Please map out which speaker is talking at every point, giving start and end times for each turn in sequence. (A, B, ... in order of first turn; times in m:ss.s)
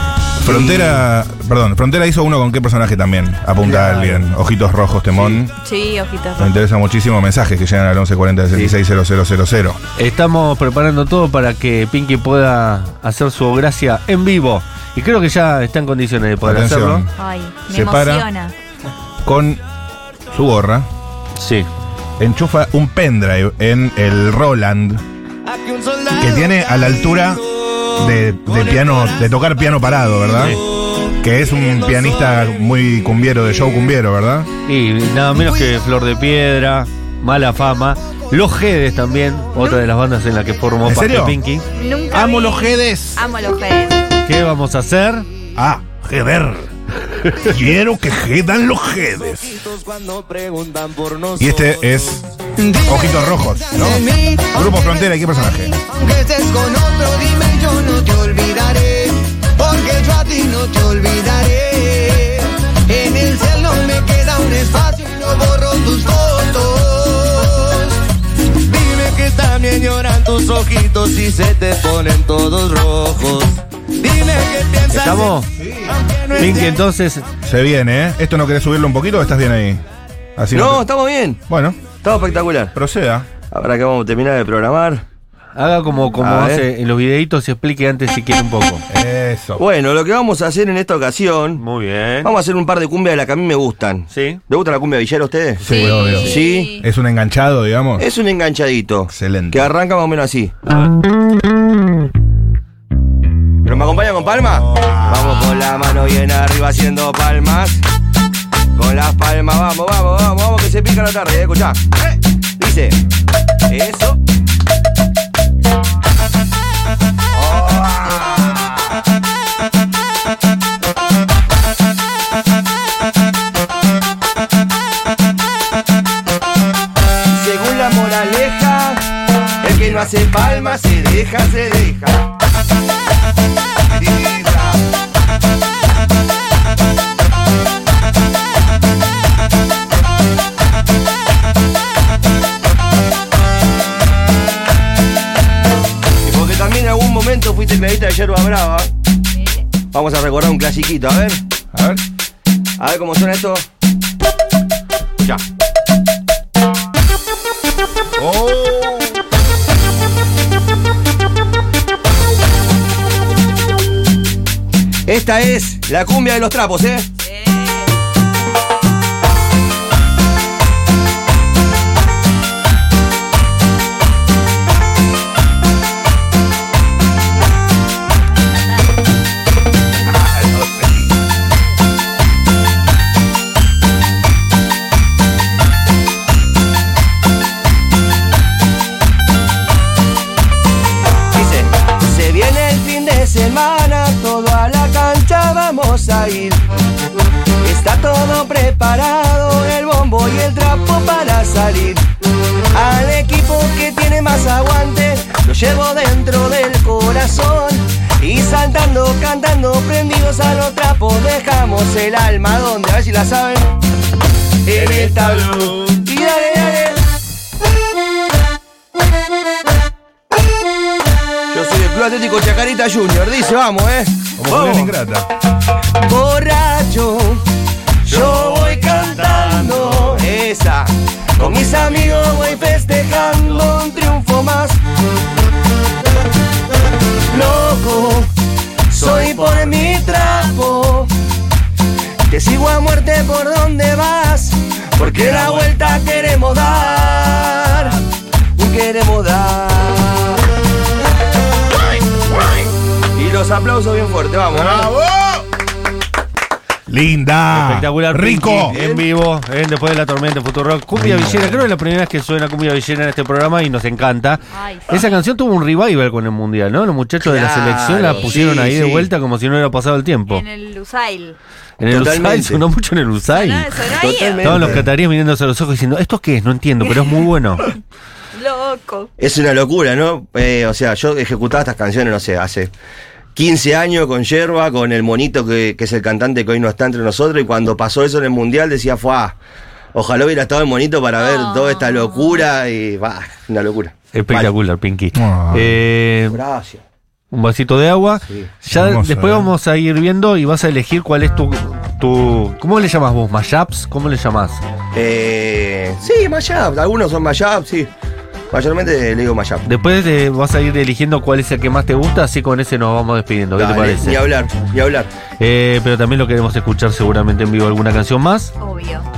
0:00.4-0:05.5 A
0:00.4-0:01.0 B
0:03.6-0:04.3 B
0:05.1-0:05.4 B
0:05.6-0:06.6 C
0:06.4-0:09.8 A
0:08.5-0:08.8 B
0:10.0-0:17.1 D
0:16.4-0:17.1 A
0:17.2-0:18.5 C
0:17.7-0:18.2 A
0:19.2-0:19.6 A
0:20.3-0:20.9 A
0:21.4-0:21.7 D
0:22.2-0:25.0 A
0:25.5-0:27.0 E
0:26.2-0:30.6 A
0:27.6-0:29.2 E
0:31.2-0:34.5 A
0:34.7-0:41.7 D
0:39.6-0:39.8 C
0:40.8-0:41.4 A
0:41.8-0:44.0 C
0:42.1-0:43.2 A
0:44.2-0:45.3 D
0:45.6-0:49.6 A
0:49.5-0:52.0 E
0:51.4-0:52.3 A
0:52.6-1:08.0 E
0:52.8-0:55.8 A
1:08.6-1:16.8 E
1:14.9-1:15.5 D
1:15.7-1:15.9 A
1:16.4-1:17.2 D
1:17.4-1:19.8 A
1:20.4-1:20.8 A
1:20.5-1:21.4 B
1:21.5-1:21.8 A
1:22.0-1:22.8 B
1:22.8-1:23.3 A
1:23.5-1:25.0 B
1:25.6-1:28.8 D
1:26.2-1:26.7 B
1:28.9-1:29.6 A
1:29.6-1:31.6 B
1:31.6-1:32.3 D
1:32.2-1:36.8 B
1:34.1-1:34.4 D
1:35.6-1:38.0 A
1:35.7-1:36.8 C
1:35.7-1:36.3 D
1:38.0-1:40.6 B
1:39.1-1:39.7 A
1:43.6-1:47.8 B
1:44.6-1:45.2 A
1:48.8-1:51.9 B
1:52.6-1:53.0 B
1:53.7-1:54.2 B
1:57.5-1:58.6 B
2:07.3-2:09.1 B
2:09.6-2:12.3 B
2:14.0-2:14.8 B
2:26.2-2:28.9 B
2:29.9-2:31.4 B
2:31.7-2:32.0 A
2:32.8-2:33.7 B
2:38.2-2:39.0 A
2:38.6-2:39.0 B
2:45.1-2:47.1 B
2:47.3-2:47.9 C
3:00.2-3:01.0 A
3:11.3-3:16.6 B
3:17.6-3:22.1 B
3:22.7-3:33.8 B
3:34.6-3:37.0 B
3:34.8-3:35.9 A
3:41.5-3:45.0 B
3:44.4-3:45.3 A
3:46.0-3:47.5 B
3:48.0-3:54.8 B
3:57.3-3:58.3 B
3:58.9-4:01.1 B
4:02.3-4:08.0 B
4:08.6-4:10.4 B
4:13.2-4:14.9 B
4:14.5-4:15.4 A
4:16.9-4:18.8 A
4:17.5-4:30.4 D
4:18.6-4:19.1 B
4:21.0-4:21.7 A
4:24.5-4:25.1 C
4:27.2-4:29.1 B
4:30.3-4:31.4 C
4:31.8-4:33.8 D
4:31.8-4:32.6 B
4:33.3-4:34.5 C
4:33.9-4:34.9 B
4:34.4-4:37.6 D
4:34.5-4:34.8 A
4:38.3-4:39.1 C
4:39.2-4:42.7 B
4:43.4-4:49.4 B
4:49.9-4:54.5 B
4:51.2-4:52.4 C
4:54.1-4:56.4 D
4:55.2-4:55.8 A
4:56.3-4:56.8 B
4:57.3-5:04.6 D
4:58.7-4:59.5 A
5:04.9-5:07.9 B
5:08.5-5:09.7 B
5:09.6-5:14.3 D
5:13.6-5:15.1 B
5:15.4-5:18.5 D
5:18.6-5:19.1 C